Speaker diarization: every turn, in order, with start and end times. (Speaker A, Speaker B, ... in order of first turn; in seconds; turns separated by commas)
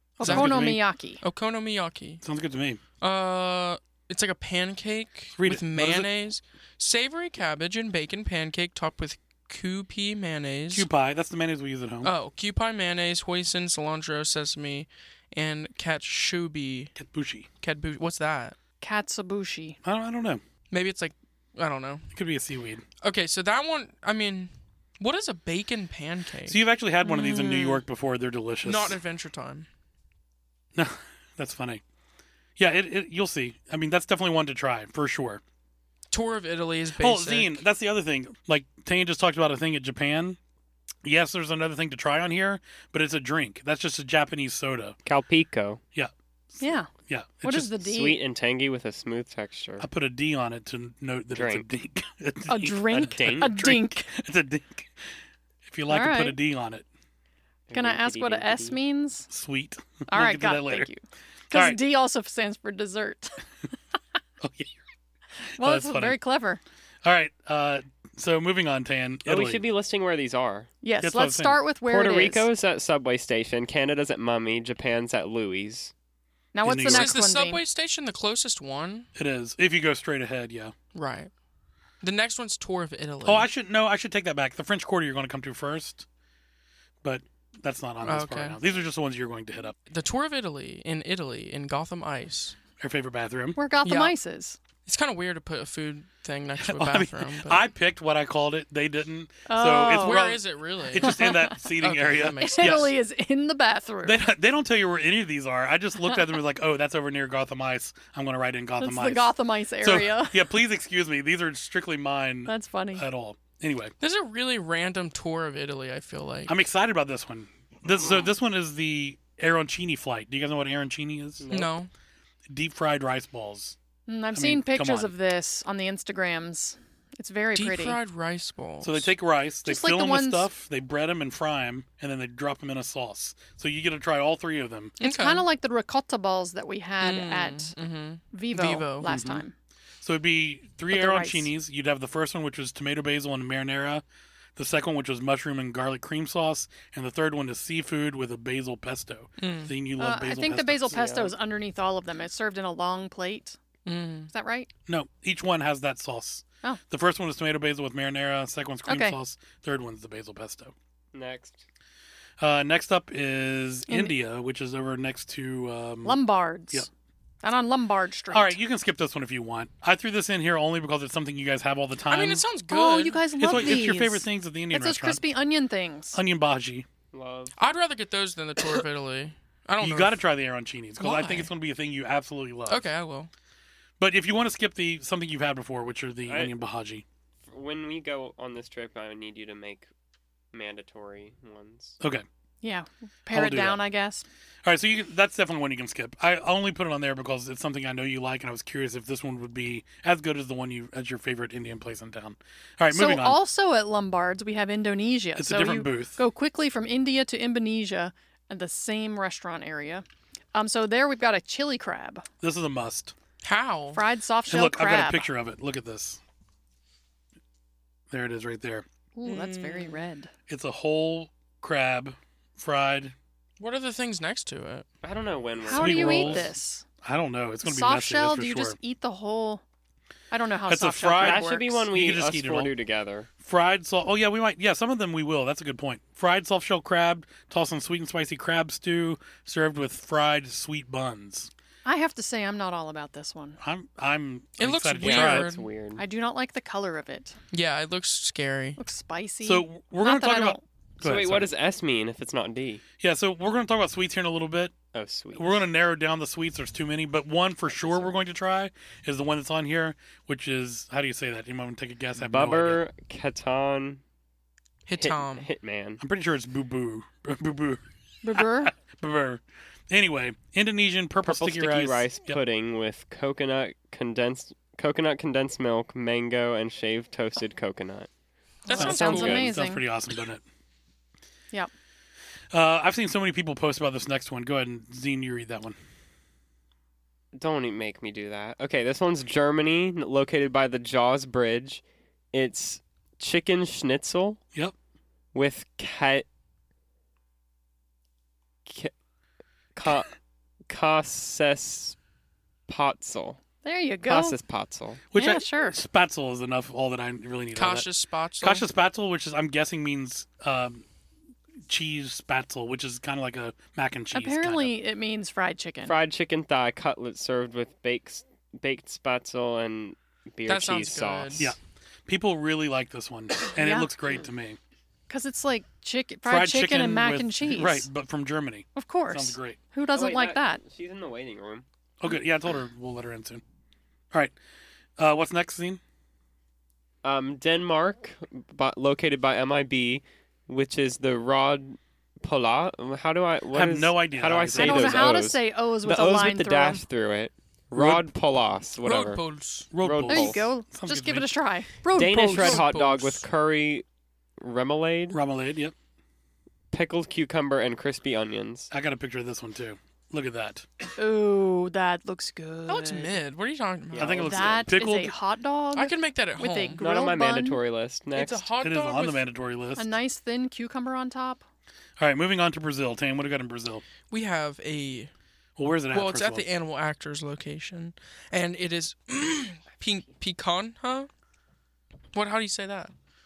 Speaker A: 0.2-1.2, Speaker B: 0.2-0.8, Speaker C: 0.2-2.2, Speaker B: 2.2-2.8, Speaker C: 3.0-10.9, Speaker B: 5.4-6.1, Speaker B: 10.7-12.1, Speaker C: 12.0-16.9, Speaker B: 16.9-17.5, Speaker C: 17.6-18.6, Speaker A: 18.8-19.8, Speaker B: 19.8-20.4, Speaker C: 20.7-22.1, Speaker B: 22.1-22.8, Speaker C: 23.0-26.6, Speaker B: 26.5-29.0, Speaker A: 27.2-27.8, Speaker C: 27.2-27.5, Speaker C: 28.6-29.7, Speaker B: 30.7-31.8, Speaker B: 32.6-35.4, Speaker C: 36.1-37.6, Speaker B: 37.0-40.4, Speaker B: 41.0-45.0, Speaker D: 45.0-45.8, Speaker B: 45.9-47.7, Speaker A: 46.6-46.9, Speaker A: 47.4-48.2, Speaker D: 47.8-49.9, Speaker B: 49.8-55.1, Speaker D: 51.3-51.6, Speaker A: 52.5-54.1, Speaker D: 53.0-53.5, Speaker B: 55.6-56.9, Speaker A: 55.9-56.4, Speaker D: 57.7-58.8, Speaker A: 57.7-59.3, Speaker B: 59.3-60.9, Speaker A: 60.1-63.4, Speaker B: 61.5-61.8, Speaker B: 64.4-64.7, Speaker B: 65.5-66.2, Speaker A: 65.6-66.6, Speaker B: 67.0-69.6, Speaker D: 69.2-70.7, Speaker A: 70.8-72.5, Speaker B: 71.0-71.6, Speaker D: 71.9-75.9, Speaker A: 76.5-77.6, Speaker B: 76.6-77.1, Speaker C: 76.8-79.1, Speaker B: 79.1-80.7, Speaker C: 80.9-81.3, Speaker C: 82.0-83.5, Speaker B: 83.2-86.0, Speaker B: 87.0-89.8, Speaker C: 88.0-88.6, Speaker C: 89.8-92.6, Speaker B: 92.8-93.6, Speaker A: 93.6-94.6, Speaker C: 93.8-94.1, Speaker C: 94.8-97.7, Speaker B: 96.6-102.9, Speaker A: 99.5-100.2, Speaker C: 100.0-101.2, Speaker A: 101.0-101.5, Speaker C: 101.8-102.9, Speaker A: 102.4-104.2, Speaker B: 104.0-113.9, Speaker A: 108.8-110.5, Speaker A: 112.5-113.0, Speaker C: 114.0-116.6, Speaker B: 116.5-121.5, Speaker D: 121.4-121.7, Speaker C: 121.5-121.9, Speaker B: 122.5-123.8, Speaker A: 124.1-128.0, Speaker B: 124.3-125.1, Speaker C: 127.5-129.1, Speaker B: 128.8-135.0, Speaker A: 129.6-130.5, Speaker C: 135.0-135.4, Speaker A: 135.0-137.7, Speaker C: 137.0-139.1, Speaker A: 138.3-139.5, Speaker B: 139.0-139.4, Speaker B: 140.0-144.0, Speaker A: 140.9-141.5, Speaker B: 144.6-151.1, Speaker C: 149.4-149.7, Speaker A: 150.0-153.6, Speaker D: 150.9-151.3, Speaker C: 153.8-154.3, Speaker A: 154.3-154.7, Speaker B: 154.9-160.7, Speaker A: 158.9-159.2, Speaker D: 161.1-161.6, Speaker B: 162.4-166.2, Speaker A: 163.9-164.1, Speaker A: 166.0-166.9, Speaker A: 167.4-168.6, Speaker B: 168.3-172.5, Speaker C: 172.1-173.7, Speaker A: 172.7-176.2, Speaker B: 173.4-175.2, Speaker B: 176.1-176.8, Speaker D: 177.1-177.5, Speaker C: 177.6-180.2, Speaker B: 179.8-182.8, Speaker C: 181.0-181.5, Speaker C: 182.7-183.3, Speaker B: 184.0-187.0, Speaker D: 186.3-186.5, Speaker D: 187.4-189.9, Speaker D: 190.5-192.0, Speaker A: 192.6-194.2, Speaker B: 193.3-193.8, Speaker B: 194.6-203.4, Speaker A: 202.9-212.2, Speaker B: 205.3-206.2, Speaker B: 212.4-213.1, Speaker C: 213.4-214.0, Speaker A: 213.9-215.3, Speaker B: 214.5-216.2, Speaker B: 218.1-218.8, Speaker A: 219.1-220.3, Speaker C: 219.2-220.0, Speaker B: 220.5-223.1, Speaker C: 223.6-224.8, Speaker D: 225.0-226.5, Speaker A: 225.7-226.8, Speaker B: 225.7-228.8, Speaker A: 227.6-229.6, Speaker A: 230.3-231.9, Speaker B: 230.7-232.7, Speaker D: 231.2-233.3, Speaker B: 233.4-241.5, Speaker A: 241.8-243.6, Speaker B: 243.6-245.5, Speaker C: 244.6-245.6, Speaker D: 245.0-246.0, Speaker A: 246.0-247.3, Speaker C: 247.5-248.8, Speaker A: 248.8-250.6, Speaker B: 249.4-251.5, Speaker D: 251.0-252.8, Speaker B: 253.0-254.7, Speaker D: 254.9-255.6, Speaker B: 255.3-262.8, Speaker D: 262.2-264.0, Speaker C: 264.9-265.5, Speaker D: 265.0-266.0, Speaker B: 266.0-267.8, Speaker A: 268.2-268.7, Speaker B: 268.3-272.4, Speaker D: 271.2-278.1, Speaker C: 278.6-279.4, Speaker A: 278.6-279.8, Speaker D: 278.7-279.5, Speaker B: 279.1-280.4, Speaker B: 282.5-285.8, Speaker D: 287.3-291.8, Speaker D: 292.3-294.4, Speaker D: 295.3-296.2, Speaker D: 298.6-298.9, Speaker D: 299.7-300.1, Speaker D: 300.7-301.9, Speaker D: 302.7-303.4, Speaker A: 303.6-304.4, Speaker D: 304.0-305.0, Speaker B: 305.1-307.9, Speaker A: 305.1-305.8, Speaker C: 307.6-308.6, Speaker B: 308.4-310.8, Speaker B: 311.7-314.7, Speaker A: 314.1-315.9, Speaker D: 315.8-321.5, Speaker C: 320.5-321.5, Speaker B: 321.4-324.6, Speaker A: 323.5-323.9, Speaker A: 325.1-327.9, Speaker B: 326.2-329.6, Speaker A: 328.7-330.6, Speaker D: 329.9-331.6, Speaker B: 332.0-333.4, Speaker B: 335.0-335.8, Speaker D: 337.0-349.2, Speaker B: 343.5-345.2, Speaker A: 344.5-346.8, Speaker B: 347.7-348.1, Speaker C: 348.8-349.7, Speaker B: 349.7-351.3, Speaker D: 349.8-350.5, Speaker A: 350.1-352.7, Speaker D: 351.9-353.8, Speaker C: 351.9-353.2, Speaker D: 354.4-355.2, Speaker B: 355.1-355.7, Speaker D: 356.7-358.7, Speaker B: 358.7-360.6, Speaker A: 361.0-363.1, Speaker C: 362.7-364.2, Speaker D: 363.9-364.6, Speaker B: 364.0-365.1, Speaker A: 364.2-367.6, Speaker C: 365.7-366.8, Speaker D: 366.8-368.5, Speaker C: 368.1-369.2, Speaker B: 368.6-369.9, Speaker A: 369.8-371.4, Speaker B: 372.0-373.8, Speaker C: 374.1-375.1, Speaker B: 375.6-376.4, Speaker C: 375.9-381.1, Speaker C: 382.1-382.9